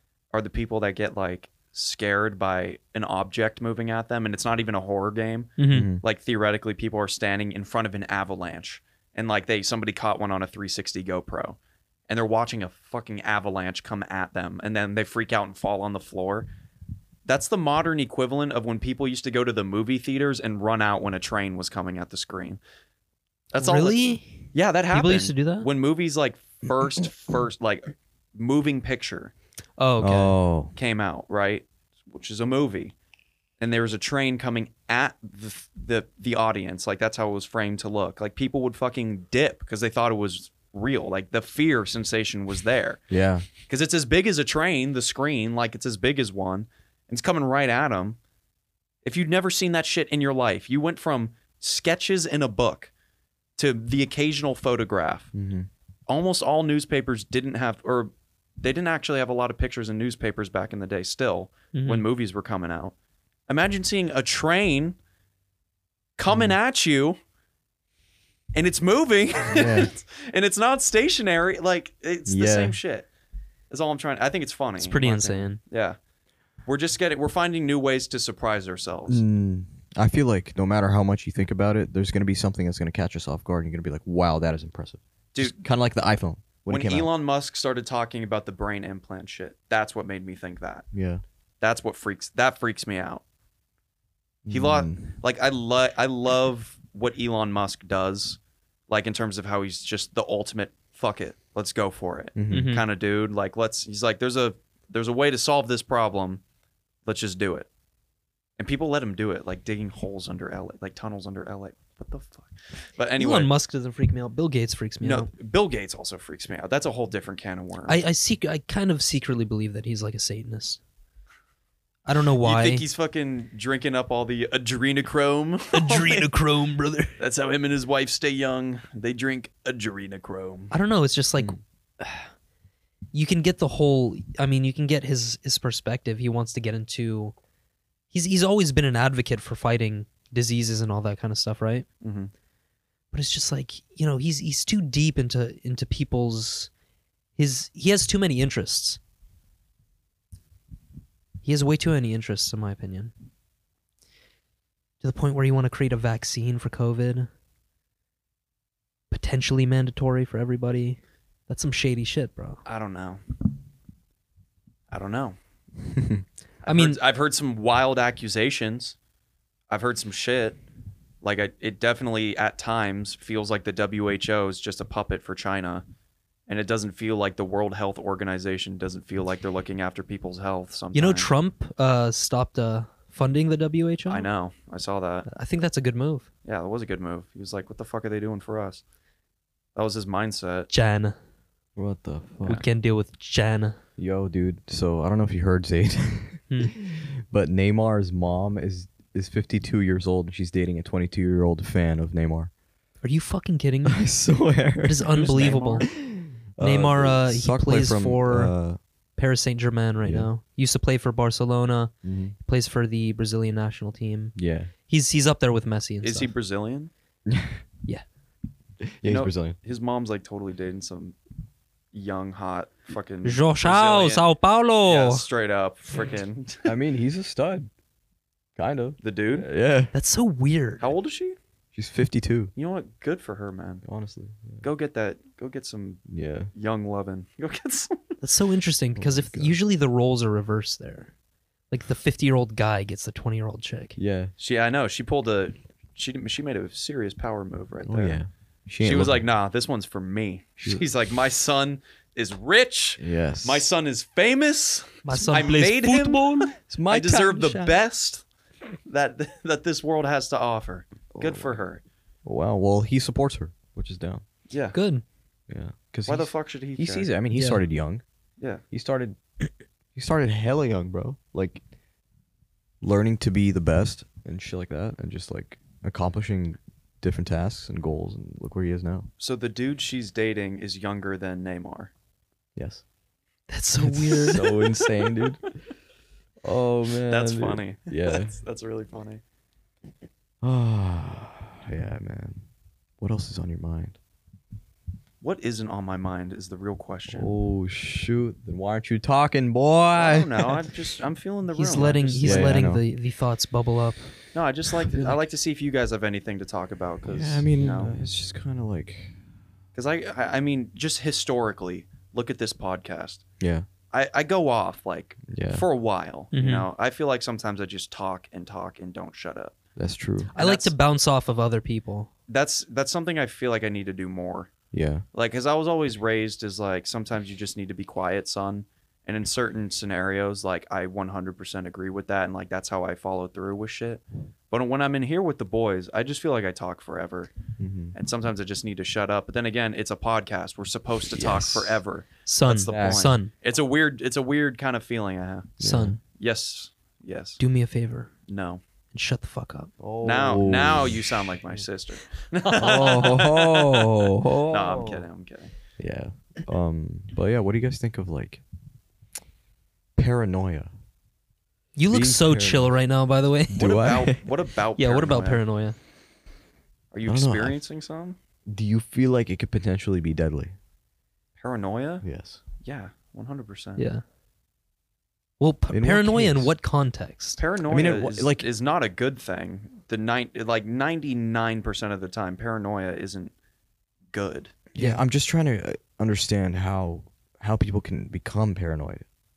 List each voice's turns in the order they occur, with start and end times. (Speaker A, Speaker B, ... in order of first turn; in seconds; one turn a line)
Speaker A: 0.3-11.6
Speaker B: 5.6-5.9
Speaker C: 5.7-6.0
Speaker A: 12.1-16.5
Speaker A: 17.3-22.6
Speaker A: 23.5-24.0
Speaker B: 23.5-25.7
Speaker A: 24.5-29.3
Speaker B: 29.8-30.4
Speaker C: 30.0-30.7
Speaker A: 30.8-32.9
Speaker A: 33.6-43.0
Speaker C: 43.1-43.5
Speaker A: 43.6-48.2
Speaker A: 49.0-52.9
Speaker A: 53.6-55.3
Speaker C: 55.3-55.7
Speaker A: 56.1-62.9
Speaker B: 61.7-62.0
Speaker A: 63.5-65.0
Speaker A: 66.2-67.2
Speaker C: 66.3-66.5
Speaker A: 68.5-73.1
Speaker C: 69.5-69.9
Speaker C: 72.3-72.8
Speaker A: 73.7-76.0
Speaker B: 74.8-75.6
Speaker A: 76.7-79.2
Speaker C: 79.1-87.1
Speaker A: 86.7-90.8
Speaker C: 90.9-91.2
Speaker A: 91.6-93.2
Speaker C: 94.5-95.2
Speaker A: 94.5-106.4
Speaker C: 102.4-102.7
Speaker B: 102.5-102.8
Speaker A: 107.0-107.7
Speaker A: 108.6-113.5
Speaker B: 113.2-115.3
Speaker A: 115.0-118.0
Speaker B: 117.9-120.8
Speaker B: 122.1-122.8
Speaker A: 122.4-126.3
Speaker B: 125.7-127.2
Speaker A: 127.2-130.7
Speaker B: 130.7-132.2
Speaker B: 133.1-137.3
Speaker B: 138.1-141.9
Speaker A: 142.0-142.3
Speaker B: 143.1-146.7
Speaker B: 147.4-149.0
Speaker B: 151.4-153.1
Speaker B: 155.0-157.3
Speaker B: 159.1-162.6
Speaker A: 162.7-163.2
Speaker A: 164.9-165.4
Speaker C: 165.9-166.2
Speaker A: 166.6-169.0
Speaker B: 166.7-167.0
Speaker A: 169.7-170.6
Speaker A: 171.2-175.8
Speaker A: 176.5-181.3
Speaker B: 180.9-184.3
Speaker A: 184.1-185.3
Speaker B: 185.3-186.3
Speaker A: 186.4-188.8
Speaker A: 189.8-190.7
Speaker B: 190.7-191.2
Speaker C: 191.8-192.6
Speaker B: 192.5-193.8
Speaker C: 194.0-202.5
Speaker B: 203.0-204.0
Speaker C: 203.8-208.8
Speaker B: 204.8-205.9
Speaker A: 205.1-205.9
Speaker B: 206.6-208.5
Speaker B: 209.2-211.9
Speaker C: 210.0-210.3
Speaker C: 212.0-212.3
Speaker B: 212.4-214.4
Speaker C: 214.3-214.7
Speaker B: 214.9-216.3
Speaker A: 216.0-216.9
Speaker C: 217.3-217.6
Speaker C: 218.8-219.6
Speaker A: 219.0-221.2
Speaker A: 221.9-224.3
Speaker B: 223.2-225.3
Speaker A: 224.8-226.7
Speaker C: 226.7-227.7
Speaker C: 228.6-229.9
Speaker A: 229.0-229.5
Speaker B: 229.9-230.9
Speaker A: 230.8-231.4
Speaker C: 231.7-232.5
Speaker A: 232.6-233.8
Speaker C: 233.8-234.7
Speaker A: 234.6-236.0
Speaker C: 236.1-236.5
Speaker A: 236.5-238.2
Speaker B: 238.2-241.1
Speaker C: 239.0-239.6
Speaker B: 241.7-244.0
Speaker C: 244.0-244.3
Speaker A: 244.4-248.2
Speaker C: 247.8-249.2
Speaker A: 248.8-258.3
Speaker C: 250.6-250.8
Speaker C: 253.0-253.7
Speaker B: 255.1-256.5
Speaker C: 256.7-257.8
Speaker A: 258.9-261.8
Speaker C: 261.1-261.6
Speaker C: 262.2-264.2
Speaker A: 264.5-264.8
Speaker B: 264.7-265.0
Speaker C: 265.5-268.0
Speaker A: 266.1-267.1
Speaker B: 267.3-267.6
Speaker C: 268.7-269.2
Speaker C: 269.9-271.6
Speaker C: 272.8-279.1
Speaker A: 279.2-281.9
Speaker C: 282.6-282.8
Speaker B: 283.5-284.7
Speaker C: 283.8-285.5
Speaker C: 286.4-288.3
Speaker A: 287.1-289.2
Speaker C: 290.4-292.5
Speaker C: 293.0-294.0
Speaker A: 295.2-297.3
Speaker C: 297.1-300.7
Speaker A: 299.9-302.6
Speaker B: 301.6-304.1
Speaker C: 302.2-302.8
Speaker A: 304.3-307.9
Speaker C: 307.1-309.1
Speaker A: 309.8-313.2
Speaker C: 313.4-313.7
Speaker A: 313.9-319.6
Speaker C: 315.3-315.6
Speaker B: 316.3-316.7
Speaker C: 319.8-320.3
Speaker B: 320.4-322.1
Speaker A: 320.4-320.7
Speaker A: 322.3-324.5
Speaker C: 324.7-325.1
Speaker A: 325.1-337.3
Speaker C: 337.6-337.9
Speaker A: 337.9-345.6
Speaker C: 341.1-341.8
Speaker B: 342.3-343.3
Speaker C: 342.7-343.1
Speaker C: 345.6-346.0
Speaker B: 345.6-346.0
Speaker A: 346.2-347.4
Speaker B: 347.4-348.1
Speaker A: 348.3-348.6
Speaker B: 348.9-349.7
Speaker C: 349.8-351.6
Speaker A: 350.0-355.5
Speaker C: 352.5-355.1
Speaker C: 355.8-358.4
Speaker C: 360.0-360.7
Speaker B: 361.8-363.6
Speaker C: 361.9-362.8
Speaker C: 363.5-364.2
Speaker A: 363.5-365.4
Speaker B: 364.8-365.8
Speaker A: 366.9-368.2
Speaker C: 367.1-367.6
Speaker C: 368.5-370.5
Speaker A: 371.4-372.1
Speaker C: 372.0-372.4
Speaker A: 372.6-373.9
Speaker B: 373.8-374.0
Speaker B: 375.4-377.4
Speaker C: 375.7-376.5
Speaker A: 377.4-383.3
Speaker C: 377.7-378.5
Speaker A: 384.1-384.5
Speaker C: 384.7-389.1
Speaker B: 384.8-385.0